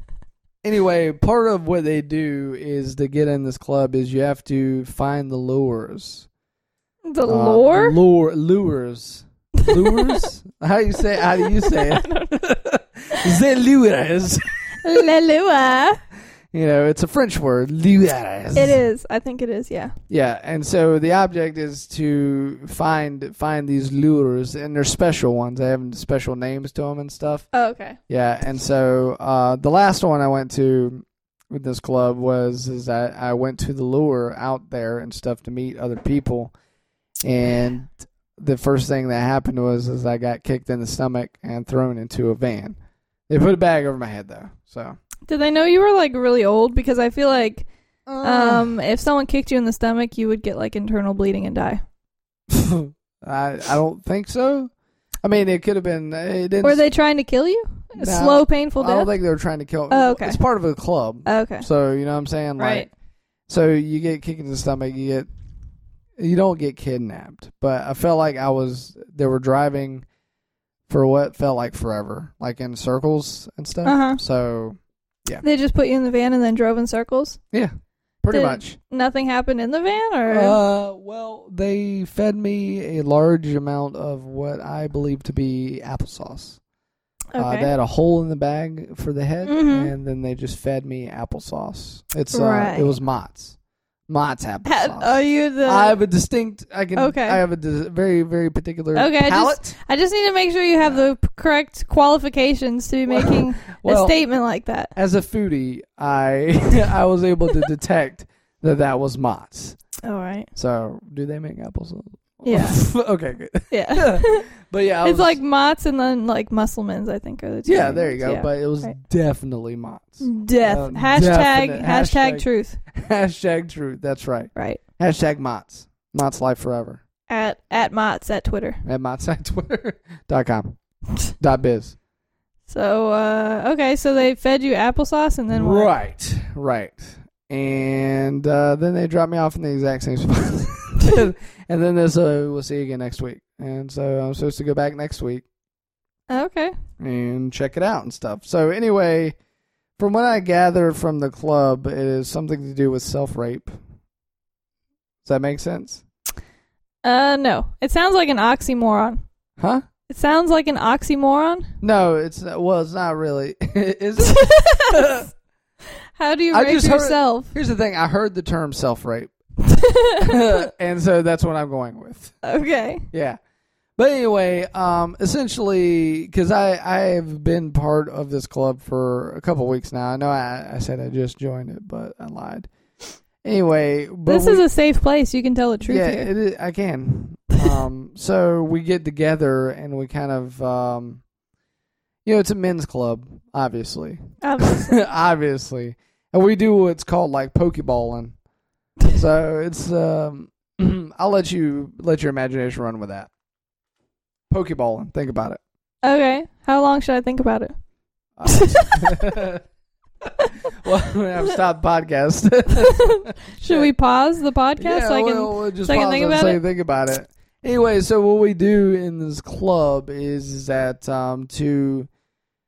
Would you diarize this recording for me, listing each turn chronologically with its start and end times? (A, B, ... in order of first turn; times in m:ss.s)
0:00.6-0:06.3 A
0:07.1-0:08.0 B
0:07.3-0:15.0 A
0:09.6-0:10.2 B
0:11.4-0:12.4 B
0:14.8-0:16.0 B
0:16.5-0:18.8 A
0:18.6-0:19.9 B
0:20.1-0:27.5 A
0:27.5-0:28.0 B
0:28.1-0:36.5 A
0:37.2-0:42.8 A
0:43.3-0:45.0 A
0:45.3-0:47.7 B
0:48.1-0:48.7 A
0:48.2-0:51.8 B
0:52.5-0:54.7 A
0:55.2-0:56.8 A
0:56.6-0:59.1 B
0:58.0-1:02.9 A
0:59.9-1:00.4 B
1:01.3-1:01.7 B
1:02.6-1:02.9 B
1:03.5-1:05.3 A
1:06.2-1:10.0 A
1:10.9-1:15.4 A
1:13.8-1:14.2 B
1:15.4-1:17.4 B
1:17.5-1:18.8 A
1:18.3-1:20.6 B
1:20.3-1:26.6 A
1:27.3-1:27.7 B
1:27.4-1:33.6 A
1:29.4-1:29.9 B
1:32.3-1:32.9 B
1:34.1-1:39.8 A
1:34.6-1:36.0 B
1:37.0-1:37.4 B
1:39.0-1:44.9 B
1:43.1-1:44.2 A
1:45.0-1:49.8 A
1:50.0-1:50.5 B
1:50.6-1:55.4 A
1:52.4-1:52.8 B
1:53.7-1:54.5 B
1:55.0-1:59.0 B
1:57.7-2:07.0 A
2:00.2-2:02.8 B
2:04.6-2:04.8 B
2:07.3-2:08.8 B
2:08.8-2:10.8 A
2:11.4-2:12.0 A
2:12.7-2:15.9 B
2:15.5-2:25.4 A
2:26.3-2:26.7 B
2:27.0-2:29.4 A
2:30.0-2:33.7 A
2:35.2-2:36.0 A
2:37.0-2:39.2 B
2:39.6-2:39.8 A
2:40.1-2:41.7 B
2:41.8-2:45.3 A
2:44.2-2:45.3 B
2:46.2-2:47.5 B
2:46.5-2:49.3 A
2:49.6-2:50.5 B
2:50.2-2:52.4 A
2:52.4-2:53.1 B
2:53.1-2:53.4 A
2:54.0-3:02.7 A
3:03.4-3:04.6 A
3:04.3-3:06.3 B
3:05.9-3:11.2 A
3:12.2-3:18.4 A
3:14.4-3:15.0 B
3:19.1-3:23.3 A
3:24.5-3:25.6 A
3:26.0-3:27.7 B
3:28.4-3:29.6 A
3:28.5-3:29.3 B
3:30.7-3:33.9 A
3:32.8-3:36.6 B
3:34.8-3:42.1 A